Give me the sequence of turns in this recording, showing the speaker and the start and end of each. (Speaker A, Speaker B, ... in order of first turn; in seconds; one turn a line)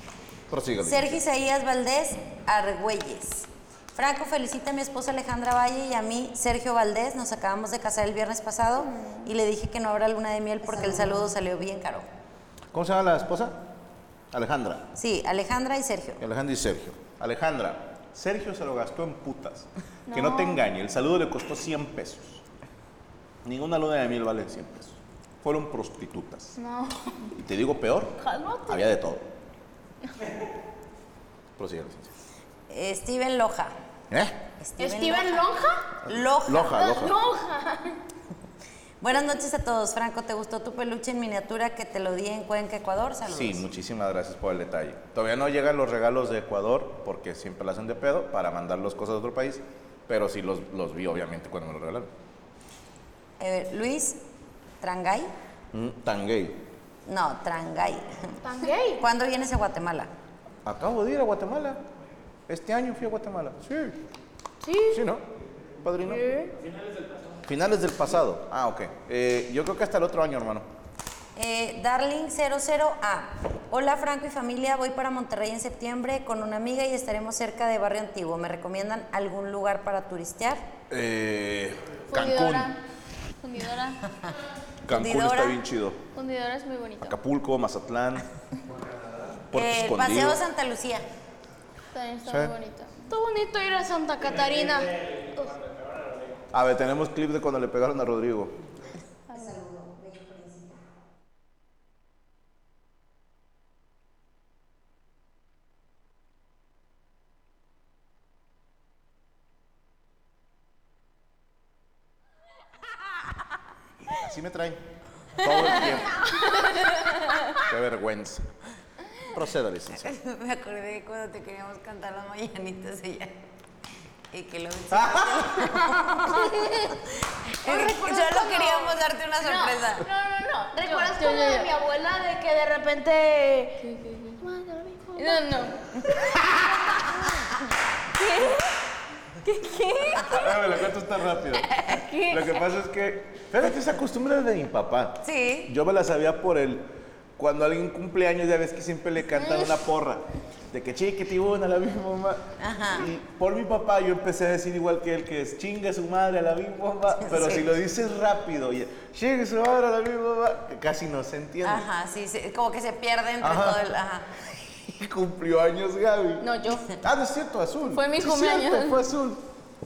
Speaker A: 0.5-1.2
Speaker B: 0.8-12.1
Speaker C: 8.9-9.3
Speaker A: 12.7-13.6
Speaker A: 14.3-14.8
Speaker B: 14.9-16.2
Speaker A: 16.2-22.4
Speaker C: 20.1-20.7
Speaker A: 23.4-26.5
Speaker C: 26.6-27.3
Speaker A: 27.3-29.2
Speaker D: 28.2-28.9
Speaker A: 31.6-32.1
Speaker B: 32.7-33.7
Speaker A: 34.1-34.4
Speaker B: 34.6-35.5
Speaker D: 34.8-35.9
Speaker B: 36.0-37.1
Speaker A: 36.1-37.2
Speaker D: 36.9-38.0
Speaker B: 39.0-43.6
Speaker A: 43.3-52.1
Speaker B: 53.4-54.2
Speaker B: 54.8-55.3
Speaker A: 55.7-56.6
Speaker B: 57.0-58.4
Speaker D: 58.4-59.0
Speaker B: 58.9-60.1
Speaker A: 60.6-61.8
Speaker A: 62.5-64.0
Speaker D: 64.6-65.0
Speaker A: 64.9-65.2
Speaker A: 65.8-66.3
Speaker D: 66.0-66.5
Speaker A: 67.5-70.7
Speaker B: 71.3-80.7
Speaker A: 80.9-82.7
Speaker C: 82.1-82.8
Speaker C: 83.4-84.0
Speaker A: 84.8-86.0
Speaker B: 84.9-85.6
Speaker C: 86.1-87.2
Speaker A: 87.0-88.3
Speaker A: 89.5-90.4
Speaker B: 89.5-91.0
Speaker C: 91.9-93.1
Speaker A: 92.3-92.5
Speaker D: 93.1-95.5
Speaker A: 96.5-98.6
Speaker B: 99.3-100.8
Speaker A: 114.1-114.8
Speaker A: 115.3-116.2
Speaker C: 116.2-117.4
Speaker A: 117.6-118.5
Speaker A: 119.3-120.1
Speaker B: 119.9-123.4
Speaker B: 124.3-130.1
Speaker A: 124.9-126.0
Speaker D: 127.7-128.8
Speaker C: 129.4-131.7
Speaker D: 130.7-133.9
Speaker C: 133.8-135.8
Speaker D: 135.1-135.4
Speaker B: 135.9-136.4
Speaker B: 137.0-137.6
Speaker C: 138.2-138.7
Speaker C: 139.4-140.6
Speaker A: 140.2-161.8
Speaker C: 141.6-142.7
Speaker B: 145.2-145.7
Speaker C: 149.4-149.7
Speaker B: 152.6-153.1
Speaker B: 157.1-157.7
Speaker B: 161.6-164.3
Speaker A: 163.4-163.8
Speaker A: 164.7-166.4
Speaker C: 166.4-166.9
Speaker A: 167.0-169.4
Speaker C: 167.8-169.0